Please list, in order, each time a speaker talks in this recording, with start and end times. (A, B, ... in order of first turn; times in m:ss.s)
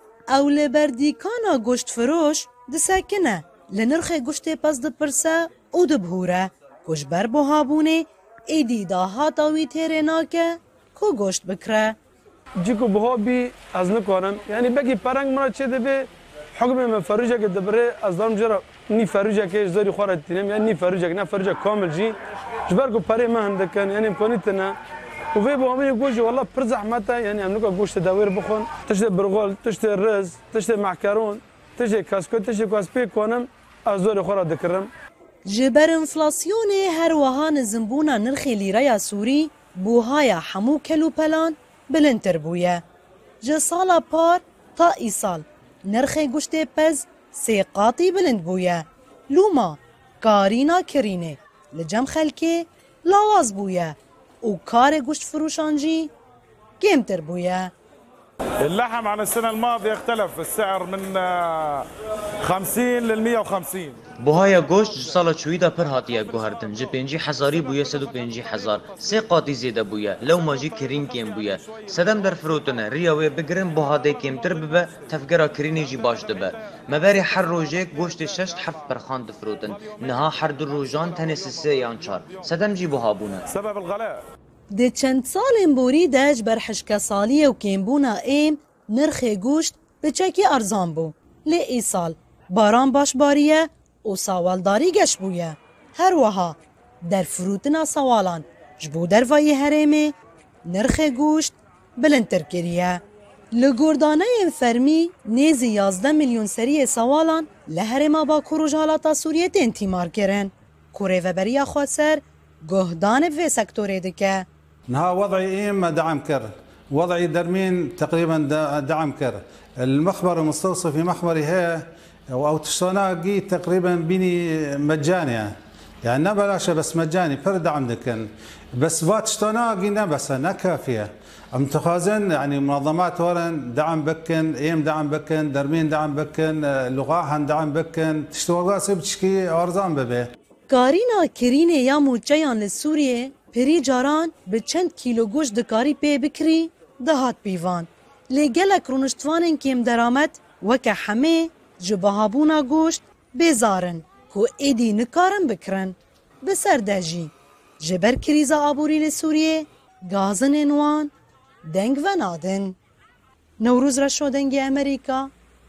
0:00.3-0:12.0 A
0:12.6-0:24.8 B
0:25.3-0:34.9 B
0:35.4-0:42.8 A
0:43.4-0:56.1 A
0:56.8-0:57.7 A
0:58.6-1:01.9 C
1:02.4-1:04.0 C
1:04.2-1:23.5 D
1:23.5-1:24.2 C
1:24.7-1:40.1 A
1:40.6-1:43.0 A
1:43.5-1:54.4 A
1:54.9-2:20.3 E
2:20.7-2:41.1 A
2:41.6-2:42.8 A
2:43.6-2:45.3 A